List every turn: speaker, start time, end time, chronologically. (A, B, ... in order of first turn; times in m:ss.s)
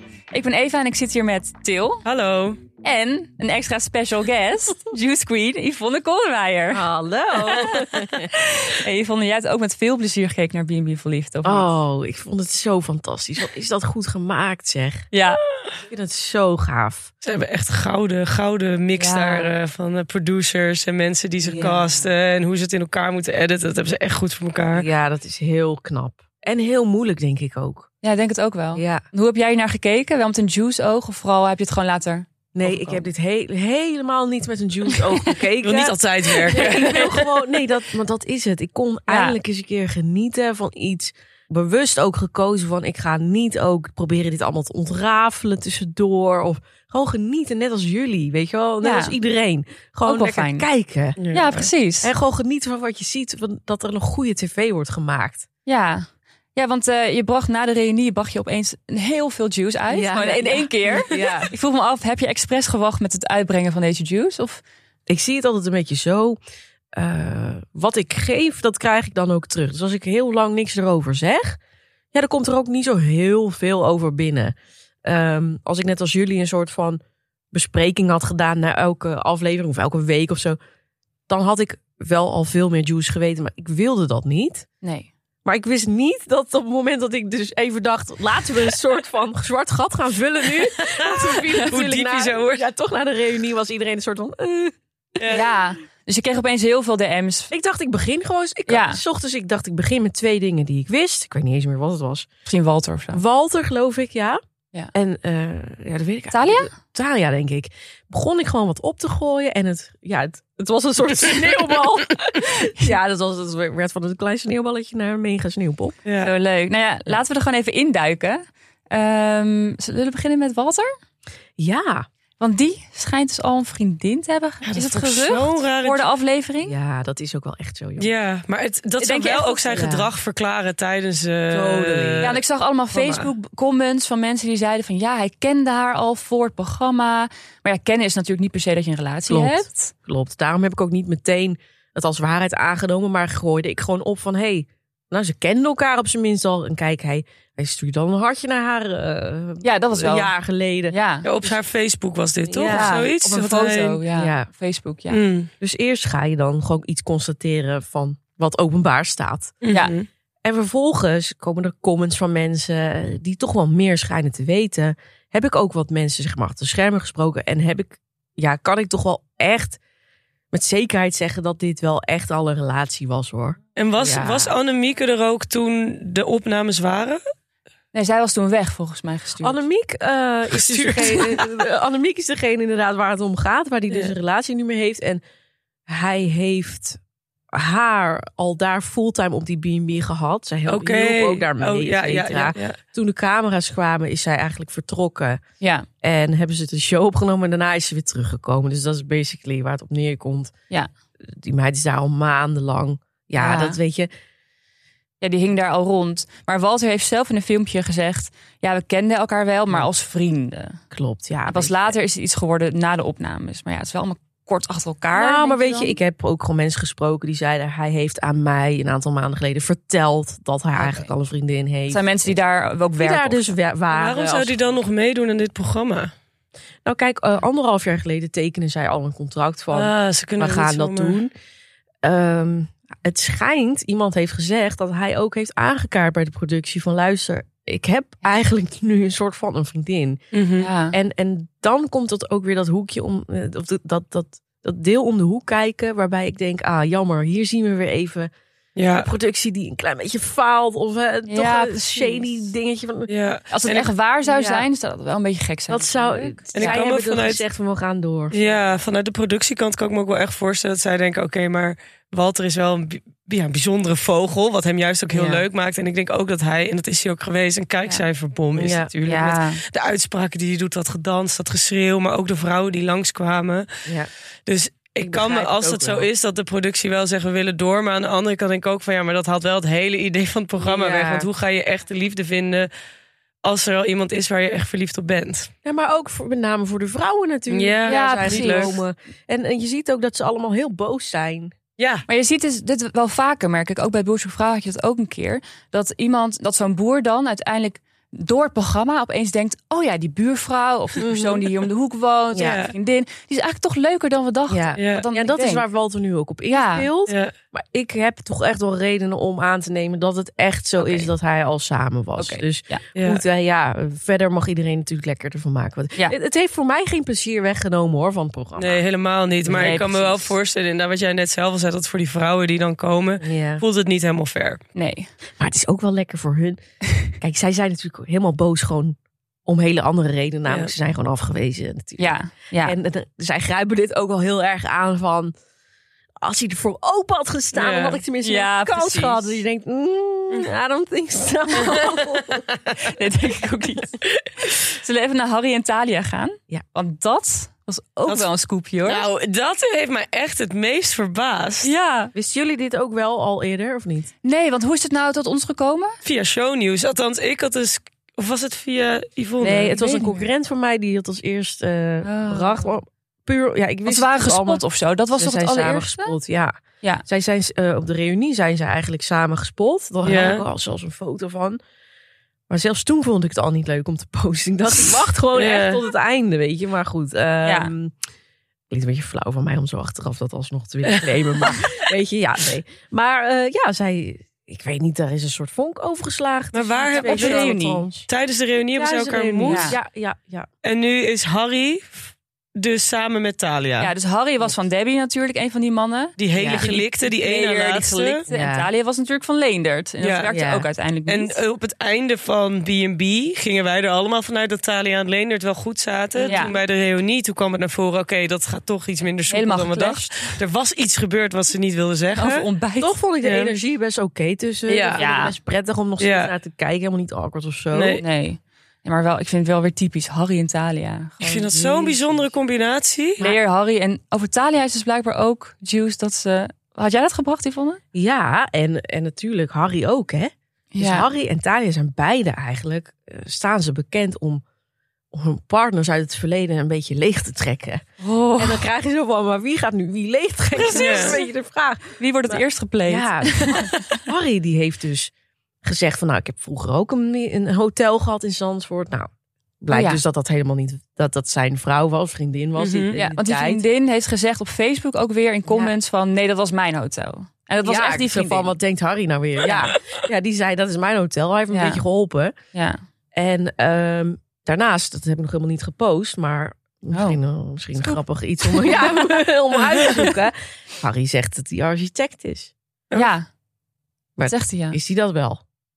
0:00.3-0:02.0 A
0:02.0-0:02.6 B
0:02.8-0:11.7 A
0:06.7-0:08.3 C
0:11.4-0:15.1 C
0:15.1-0:15.4 A
0:15.9-0:17.1 C
0:17.2-0:24.9 B
0:19.0-0:19.6 A
0:21.4-0:21.9 C
0:24.7-0:27.9 C
0:28.0-0:33.1 A
0:28.8-0:29.0 C
0:32.5-0:55.5 C
0:35.6-0:37.3 B
0:39.1-0:39.4 A
0:48.8-0:49.2 A
0:50.0-0:50.7 A
0:51.2-0:51.5 B
0:51.3-0:52.1 A
0:55.6-1:04.6 A
0:59.9-1:01.5 C
1:05.1-1:06.4 C
1:06.9-1:11.6 C
1:12.1-1:17.0 C
1:17.5-1:20.6 C
1:21.3-1:24.7 C
1:24.8-1:25.1 A
1:25.4-1:34.8 C
1:30.6-1:32.7 B
1:35.2-1:35.5 B
1:35.3-1:37.5 A
1:37.5-1:42.3 C
1:38.7-1:39.0 A
1:42.4-1:43.2 A
1:43.1-1:44.4 C
1:44.9-1:56.0 C
1:46.3-1:46.7 A
1:56.0-1:56.3 B
1:56.2-2:00.9 A
2:01.6-2:02.1 C
2:02.4-2:06.8 A
2:04.6-2:06.1 B
2:06.6-2:08.1 C
2:08.0-2:12.4 B
2:09.0-2:09.9 A
2:09.7-2:10.1 C
2:11.5-2:12.4 C
2:12.2-2:19.9 A
2:12.9-2:13.3 B
2:19.3-2:31.6 C
2:29.6-2:30.3 A
2:30.9-2:31.3 A
2:31.2-2:34.0 B
2:32.5-2:33.2 C
2:32.7-2:35.2 A
2:34.1-2:34.5 C
2:35.1-2:35.5 B
2:35.6-2:39.6 C
2:39.6-2:40.1 B
2:39.7-2:40.0 A
2:40.4-2:49.8 C
2:50.5-2:54.5 C
2:53.8-2:57.2 B
2:57.9-2:59.6 A
2:59.4-3:05.2 C
3:00.5-3:01.6 B
3:03.9-3:04.2 B
3:05.9-3:07.0 C
3:07.5-3:15.4 C
3:10.7-3:12.8 B
3:15.6-3:15.9 A
3:16.0-3:20.5 C
3:21.3-3:24.1 C
3:23.4-3:23.8 A
3:25.2-3:30.8 A
3:30.9-3:32.0 C
3:31.5-3:36.0 A
3:35.1-3:42.4 C
3:40.8-3:41.1 A
3:41.9-3:43.6 A
3:43.0-3:44.8 C
3:43.9-3:46.1 B
3:46.8-3:51.3 C
3:49.7-3:51.2 B
3:52.0-4:00.2 C
4:00.3-4:00.7 B
4:00.6-4:01.0 A
4:00.9-4:08.3 C
4:08.8-4:09.1 B
4:08.9-4:13.1 C
4:11.3-4:12.5 A
4:13.1-4:13.9 B
4:13.5-4:16.8 A
4:14.2-4:14.7 C
4:15.7-4:18.4 C
4:16.5-4:17.4 B
4:18.3-4:33.7 B
4:25.1-4:25.4 A
4:28.6-4:28.9 C
4:29.0-4:29.6 A
4:33.8-4:34.1 C
4:34.5-4:42.7 B
4:35.0-4:36.1 C
4:40.6-4:41.3 C
4:43.4-4:45.5 B
4:45.6-4:51.6 C
4:47.5-4:48.7 B
4:47.9-4:48.8 A
4:51.8-4:52.0 B
4:52.1-5:05.7 A
5:01.0-5:01.5 C
5:02.3-5:02.6 C
5:02.4-5:02.7 B
5:04.5-5:18.8 C
5:04.8-5:05.1 B
5:06.5-5:06.9 A
5:07.1-5:07.3 B
5:10.8-5:11.1 A
5:12.2-5:12.8 A
5:13.0-5:13.2 B
5:18.6-5:24.6 B
5:19.5-5:20.4 A
5:23.2-5:23.6 C
5:24.8-5:25.1 A
5:25.4-5:26.6 C
5:27.2-5:29.0 C
5:29.5-5:35.3 C
5:30.5-5:30.7 B
5:32.0-5:32.8 A
5:36.2-5:42.4 C
5:37.5-5:38.0 B
5:38.2-5:39.4 A
5:42.8-5:49.0 A
5:48.8-5:51.7 B
5:51.6-5:52.1 A
5:52.1-5:54.1 C
5:54.2-5:56.0 A
5:56.0-5:59.8 B
5:59.4-6:11.6 C
5:59.7-6:00.3 A
6:02.0-6:02.7 A
6:03.9-6:06.2 A
6:10.0-6:10.5 B
6:12.5-6:17.9 C
6:15.3-6:15.9 B
6:17.4-6:17.7 A
6:18.7-6:28.1 C
6:20.9-6:21.6 B
6:26.5-6:27.5 B
6:26.9-6:27.9 A
6:28.1-6:29.8 B
6:28.8-6:30.5 C
6:29.4-6:29.8 A
6:30.6-6:33.9 B
6:33.8-6:41.4 A
6:36.2-6:38.2 B
6:36.4-6:36.8 C
6:38.3-6:38.7 C
6:40.0-6:40.3 B
6:40.3-6:40.7 C
6:41.1-6:52.5 B
6:46.2-6:46.6 A
6:46.2-6:46.5 C
6:49.3-6:50.4 A
6:52.2-6:53.0 A
6:52.8-6:58.0 C
6:53.2-6:53.5 B
6:54.7-6:55.0 B
6:55.0-6:55.4 A
6:56.0-6:56.3 B
6:57.7-6:58.0 B
6:58.0-7:01.5 A
7:01.2-7:03.2 B
7:01.2-7:02.3 C
7:03.2-7:07.8 A
7:07.9-7:14.4 C
7:10.7-7:11.1 A
7:15.1-7:17.8 C
7:18.0-7:18.6 A
7:18.4-7:25.1 C
7:20.6-7:21.3 A
7:20.7-7:21.2 B
7:22.0-7:24.0 A
7:25.6-7:29.1 C
7:29.6-7:33.6 C
7:29.7-7:30.0 A
7:32.6-7:33.0 B
7:32.9-7:38.6 A
7:35.5-7:35.7 C
7:37.6-7:42.3 C
7:39.4-7:39.8 A
7:41.5-7:41.8 A
7:42.5-7:42.8 A
7:43.1-7:52.5 C
7:46.9-7:47.2 A
7:47.8-7:49.2 A
7:52.9-7:53.3 A
7:54.2-7:55.4 C
7:54.2-7:54.8 A